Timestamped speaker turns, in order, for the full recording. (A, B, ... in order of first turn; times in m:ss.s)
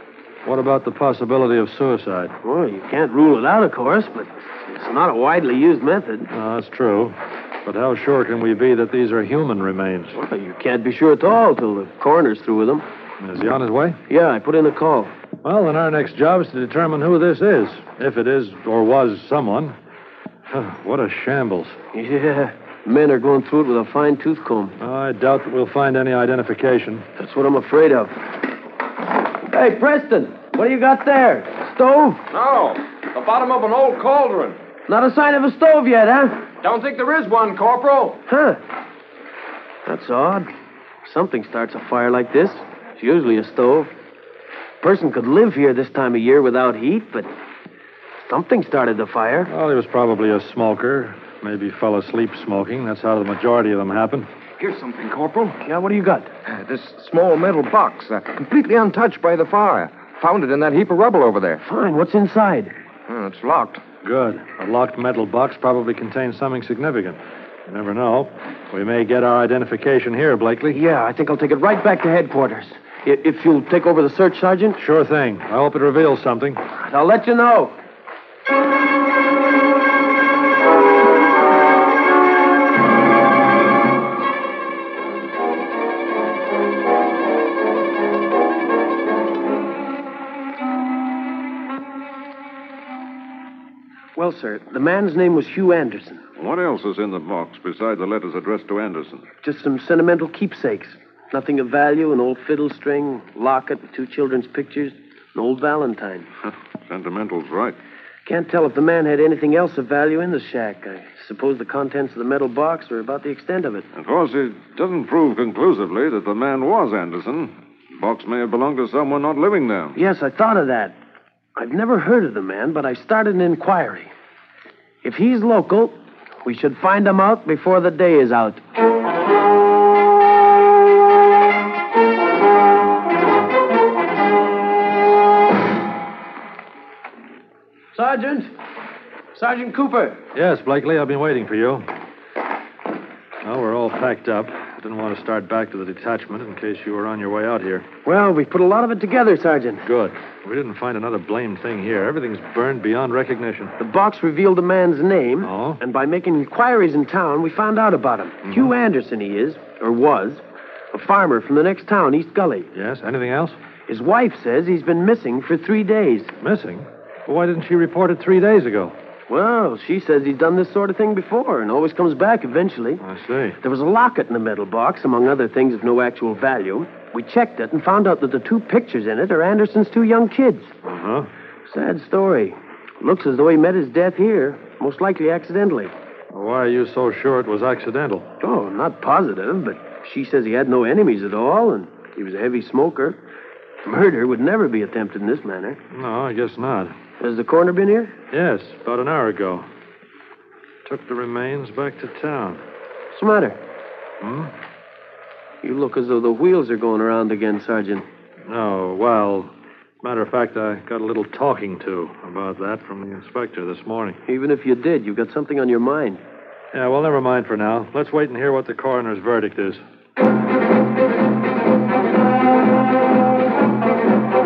0:00.4-0:02.4 A
0:02.4-0:06.3 B
0:06.3-0:10.2 A
0:10.1-0:12.9 B
0:13.2-0:14.0 A
0:14.1-0:15.1 B
0:15.4-0:19.8 A
0:20.5-0:21.8 A
0:21.9-0:24.7 B
0:24.8-0:27.1 A
0:27.2-0:28.3 B
0:29.4-0:32.3 B
0:32.3-0:34.6 C
0:34.9-0:36.5 B
0:36.6-0:38.2 C
0:38.2-0:38.6 B
0:39.8-0:40.5 B
0:41.0-0:43.9 B
0:44.8-0:47.3 B
0:48.2-0:49.5 B
0:49.5-0:54.3 A
0:54.7-0:55.0 C
0:55.1-0:55.5 D
0:55.6-0:56.3 B
0:56.5-1:01.6 D
1:01.6-1:02.7 B
1:03.1-1:03.8 D
1:04.0-1:10.8 A
1:10.7-1:14.8 B
1:14.8-1:16.6 A
1:16.8-1:17.8 B
1:34.2-1:36.2 B
1:36.4-1:39.3 E
1:39.4-1:46.3 B
1:46.9-1:47.8 E
1:48.2-1:53.9 B
1:54.0-2:00.0 E
2:00.0-2:01.0 B
2:01.6-2:04.1 B
2:05.0-2:08.6 B
2:17.9-2:18.5 B
2:19.4-2:20.2 B
2:20.3-2:21.9 A
2:23.4-2:27.9 A
2:28.0-2:29.8 B
2:29.8-2:33.8 A
2:33.8-2:42.7 B
2:35.4-2:35.8 A
2:42.7-2:43.6 A
2:43.9-2:46.3 B
2:46.4-2:49.0 A
2:49.3-2:53.0 B
2:53.0-2:53.6 A
2:53.6-3:00.7 B
3:00.8-3:01.3 A
3:01.7-3:05.9 B
3:06.3-3:08.3 A
3:08.4-3:13.2 B
3:13.8-3:15.8 B
3:15.9-3:17.0 A
3:17.2-3:18.2 B
3:18.3-3:19.7 A
3:20.8-3:22.6 A
3:23.1-3:23.6 B
3:24.2-3:24.5 A
3:25.6-3:28.1 B
3:28.5-3:34.2 A
3:34.3-3:36.2 B
3:36.7-3:39.8 A